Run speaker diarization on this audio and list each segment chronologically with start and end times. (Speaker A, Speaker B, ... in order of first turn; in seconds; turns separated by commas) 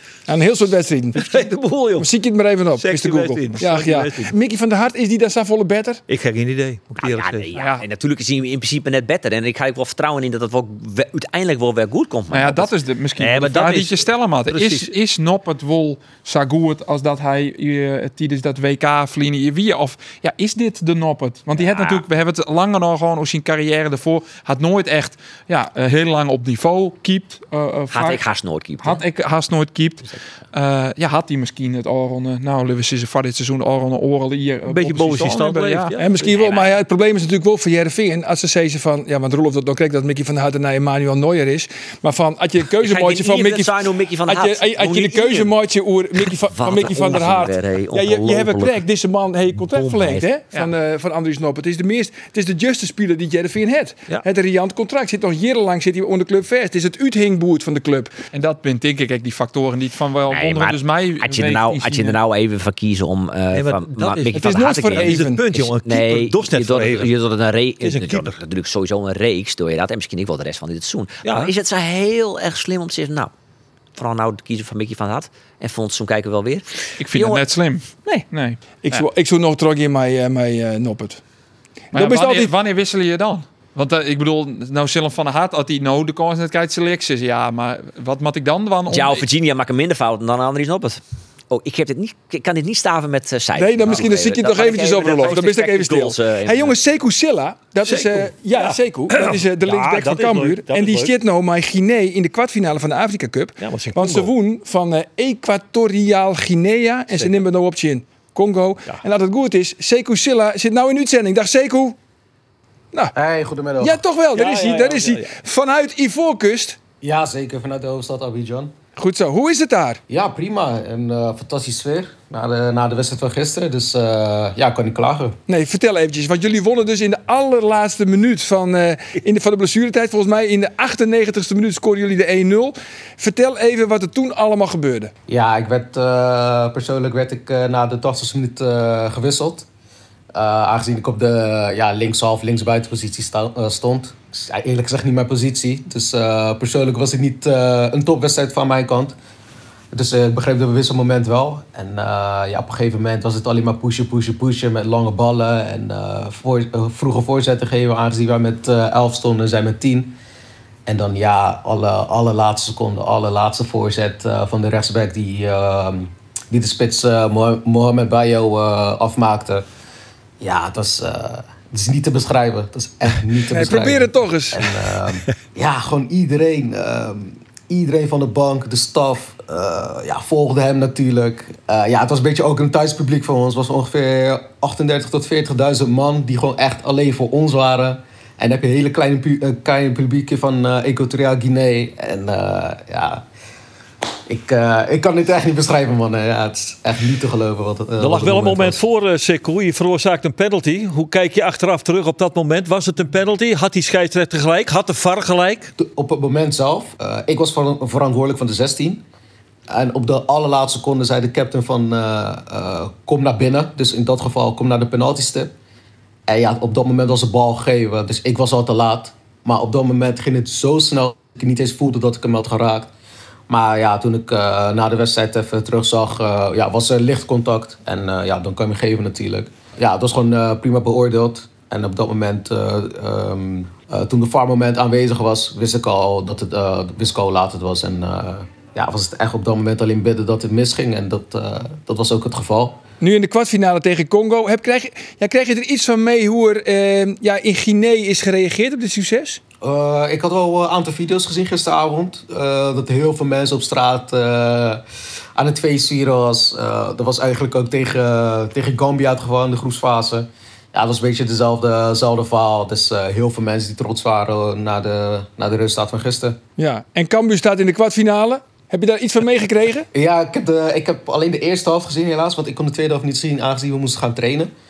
Speaker A: 0.3-1.5, Speaker B: 1.2-2.1, Speaker A: 2.0-6.0, Speaker B: 2.8-4.3, Speaker B: 6.1-7.5, Speaker C: 7.0-13.9, Speaker D: 7.6-7.8, Speaker D: 12.3-28.2, Speaker B: 14.5-14.9, Speaker C: 21.6-22.0, Speaker C: 27.9-29.0, Speaker D: 28.8-35.9, Speaker B: 34.7-36.1, Speaker A: 36.0-58.1, Speaker C: 36.2-36.7, Speaker C: 42.8-45.5, Speaker C: 46.4-48.8, Speaker B: 49.7-50.1, Speaker D: 58.3-62.2, Speaker C: 60.3-73.3, Speaker B: 63.5-67.1, Speaker A: 64.3-65.5, Speaker B: 67.8-68.4, Speaker B: 71.2-71.5, Speaker C: 74.0-77.5, Speaker D: 77.0-79.1, Speaker A: 78.8-81.2, Speaker A: 81.9-82.5, Speaker D: 81.9-89.2, Speaker C: 88.9-96.8, Speaker A: 93.6-112.0, Speaker B: 97.8-101.2, Speaker B: 103.6-104.3, Speaker B: 107.1-107.4, Speaker E: 113.1-114.0, Speaker A: 113.8-116.8, Speaker B: 114.3-115.3, Speaker E: 117.0-118.7, Speaker A: 119.0-120.0, Speaker E: 120.1-125.4, Speaker A: 125.5-135.1, Speaker E: 135.3-139.7, Speaker E: 140.3-149.2, Speaker E: 149.9-160.2, Speaker E: 160.9-169.7, Speaker E: 170.4-193.2, Speaker A: 173.5-174.7, Speaker E: 194.3-198.8, Speaker B: 198.0-205.7, Speaker E: 205.8-209.0, Speaker E: 209.7-215.5, Speaker E: 216.3-222.9, Speaker E: 223.5-242.8, Speaker A: 243.0-249.4, Speaker E: 249.6-254.8, Speaker E: 255.4-266.4, Speaker A: 266.6-269.9, Speaker E: 269.9-274.5